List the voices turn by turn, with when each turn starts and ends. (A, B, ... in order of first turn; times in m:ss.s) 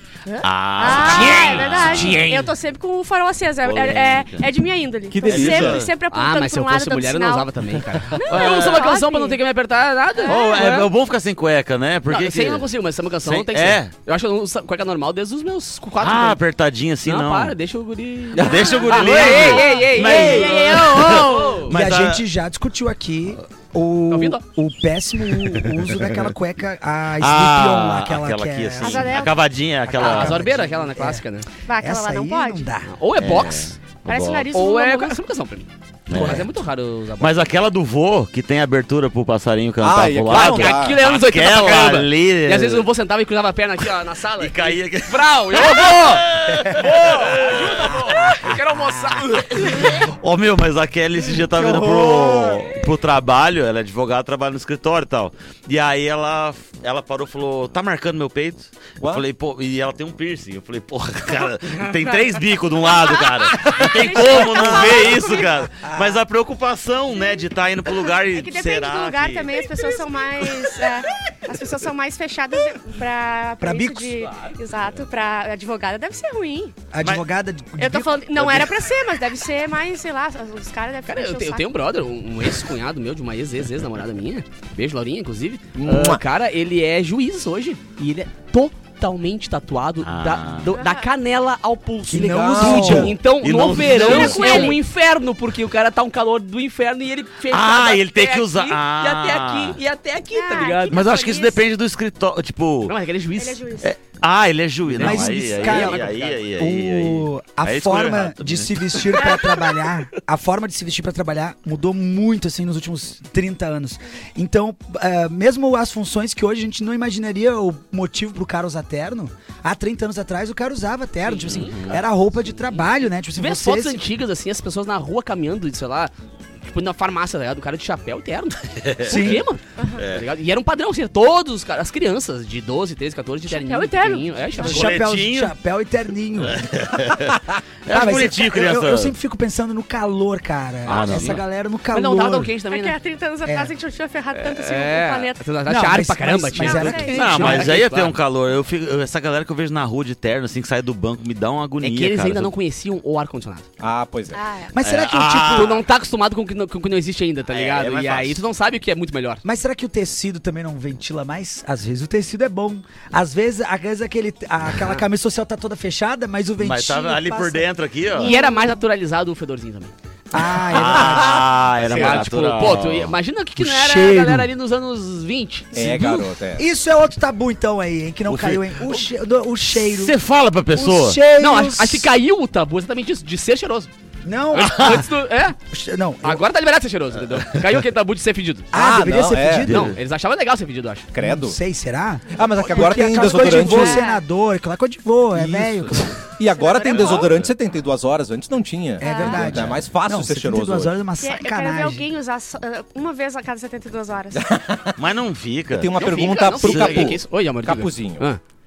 0:00.3-0:07.5 A
0:00.4-0:02.3 B
0:00.9-0:02.3 C
0:00.9-0:02.5 D
0:03.6-0:04.5 B
0:05.1-0:05.9 E
0:05.2-0:05.9 B
0:06.1-0:10.9 D
0:08.1-0:09.4 A
0:08.2-0:08.8 B
0:10.2-0:10.7 A
0:10.3-0:12.7 B
0:12.1-0:16.4 D
0:13.2-0:13.9 B
0:16.0-0:17.6 B
0:17.0-0:21.8 D
0:18.4-0:22.2 B
0:18.6-0:21.6 A
0:18.9-0:20.5 C
0:21.7-0:29.3 C
0:24.1-0:24.4 D
0:27.2-0:30.5 B
0:28.8-0:29.4 A
0:29.8-0:31.2 C
0:30.0-0:31.5 D
0:31.7-0:32.7 A
0:31.8-0:32.9 C
0:32.8-0:33.8 D
0:33.2-0:34.5 B
0:34.0-0:35.2 A
0:34.5-0:37.4 D
0:36.1-0:36.5 B
0:36.1-0:36.5 C
0:37.2-0:42.9 B
0:39.8-0:41.0 E
0:40.3-0:50.0 D
0:44.4-0:48.5 B
0:49.6-1:10.0 B
0:51.5-0:52.7 E
1:02.0-1:02.3 A
1:03.0-1:05.7 A
1:05.8-1:06.2 C
1:08.1-1:16.8 A
1:13.6-1:14.2 C
1:16.9-1:18.4 C
1:17.8-1:21.7 A
1:18.4-1:18.8 B
1:21.1-1:41.1 D
1:25.8-1:26.2 E
1:30.0-1:30.7 B
1:30.7-1:31.1 A
1:32.1-1:33.2 C
1:32.1-1:33.2 E
1:33.4-1:34.8 B
1:33.9-1:34.8 A
1:37.5-1:39.8 B
1:40.3-1:41.6 A
1:40.9-1:42.9 B
1:42.9-1:43.6 D
1:43.4-1:43.9 A
1:43.8-1:49.3 B
1:44.9-1:46.4 D
1:45.0-2:04.0 C
1:49.2-1:49.8 A
2:01.2-2:02.0 D
2:03.4-2:06.1 D
2:06.6-2:14.9 D
2:08.8-2:09.3 B
2:09.0-2:09.4 C
2:09.8-2:10.0 A
2:10.0-2:10.2 B
2:13.5-2:14.8 A
2:14.6-2:15.6 B
2:14.6-2:16.6 C
2:16.4-2:19.1 B
2:17.9-2:22.6 C
2:20.8-2:21.4 B
2:20.9-2:23.0 D
2:22.7-2:25.4 A
2:23.5-2:23.7 C
2:24.3-2:28.2 D
2:25.7-2:27.8 C
2:26.6-2:27.6 A
2:27.0-2:32.5 B
2:31.8-2:33.7 D
2:33.8-2:34.4 E
2:34.3-2:34.7 A
2:34.7-2:35.8 C
2:34.8-2:35.8 B
2:35.5-2:39.4 D
2:37.5-2:38.4 B
2:39.4-2:47.7 C
2:46.6-2:48.3 B
2:48.2-2:49.9 D
2:48.2-2:48.6 A
2:50.3-2:51.5 C
2:50.6-2:53.1 B
2:51.9-2:52.3 E
2:51.9-2:55.8 D
2:53.6-2:54.5 C
2:55.7-2:56.6 E
2:55.8-3:00.2 C
2:58.3-2:58.8 B
2:59.7-3:01.2 B
3:00.7-3:02.1 C
3:01.4-3:03.9 D
3:04.2-3:05.1 C
3:04.5-3:05.6 D
3:04.6-3:05.0 B
3:05.6-3:06.4 C
3:06.2-3:08.7 D
3:08.7-3:09.8 E
3:08.7-3:09.9 C
3:09.7-3:10.0 B
3:09.7-3:11.1 D
3:11.1-3:11.6 E
3:11.2-3:16.2 C
3:12.3-3:14.1 E
3:12.8-3:14.2 A
3:15.3-3:21.0 E
3:16.5-3:17.4 A
3:19.0-3:19.6 A
3:19.0-3:22.1 C
3:21.2-3:24.4 A
3:24.4-3:25.0 E
3:25.0-3:26.0 B
3:25.7-3:28.3 E
3:26.0-3:28.4 D
3:26.5-3:27.2 B